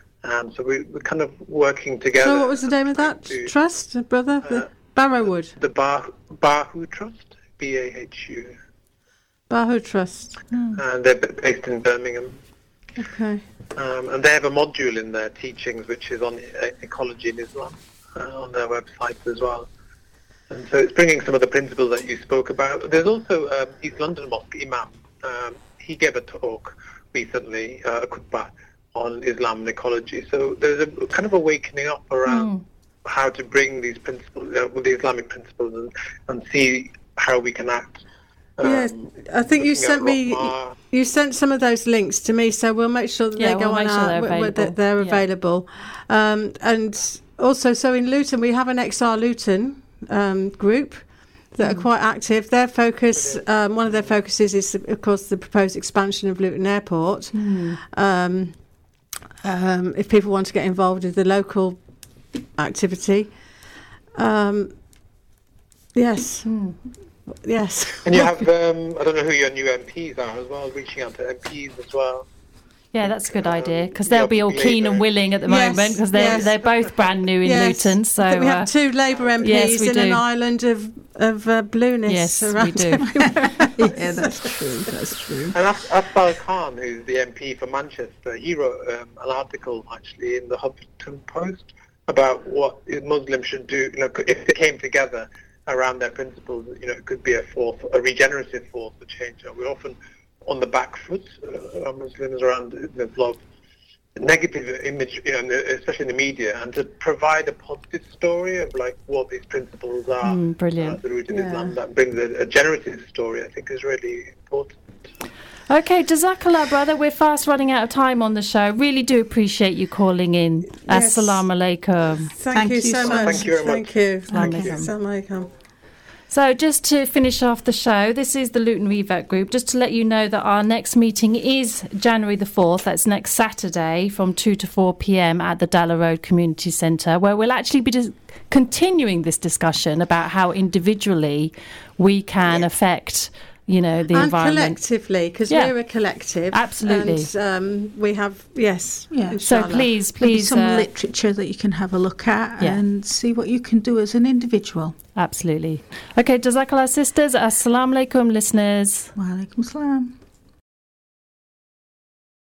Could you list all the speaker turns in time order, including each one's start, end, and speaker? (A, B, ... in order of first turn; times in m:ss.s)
0:00.2-0:03.5 A
0:02.2-0:05.5 B
0:04.4-0:04.7 A
0:05.5-0:08.6 A
0:09.5-0:10.4 B
0:10.5-0:10.8 C
0:10.7-0:12.4 A
0:13.0-0:13.4 B
0:13.7-0:19.7 A
0:20.5-0:32.5 A
0:32.2-0:32.6 D
0:33.0-0:38.0 A
0:38.6-0:40.7 A
0:38.6-0:58.6 B
0:43.4-0:45.2 D
0:53.2-0:53.4 A
0:57.3-0:57.8 D
0:59.4-1:01.8 B
1:02.6-1:03.3 B
1:04.1-1:04.7 B
1:05.9-1:06.5 B
1:06.4-1:06.8 D
1:07.4-1:08.4 B
1:08.0-1:12.3 A
1:12.9-1:18.7 D
1:13.0-1:15.0 A
1:15.5-1:16.5 B
1:16.2-1:16.4 A
1:17.4-1:24.6 B
1:19.4-1:20.2 D
1:22.1-1:23.1 D
1:23.0-1:25.6 C
1:25.5-1:43.4 A
1:44.1-1:54.8 A
1:50.2-1:51.0 D
1:51.3-1:51.7 B
1:55.7-2:02.3 D
2:00.9-2:01.4 B
2:02.3-2:05.5 B
2:02.5-2:03.5 C
2:03.0-2:03.9 A
2:04.3-2:04.7 C
2:04.3-2:04.9 D
2:06.3-2:24.8 D
2:24.1-2:29.9 B
2:26.5-2:27.3 D
2:29.1-2:29.4 C
2:29.4-2:30.9 D
2:30.2-2:35.0 C
2:35.2-2:39.1 D
2:39.2-2:40.2 C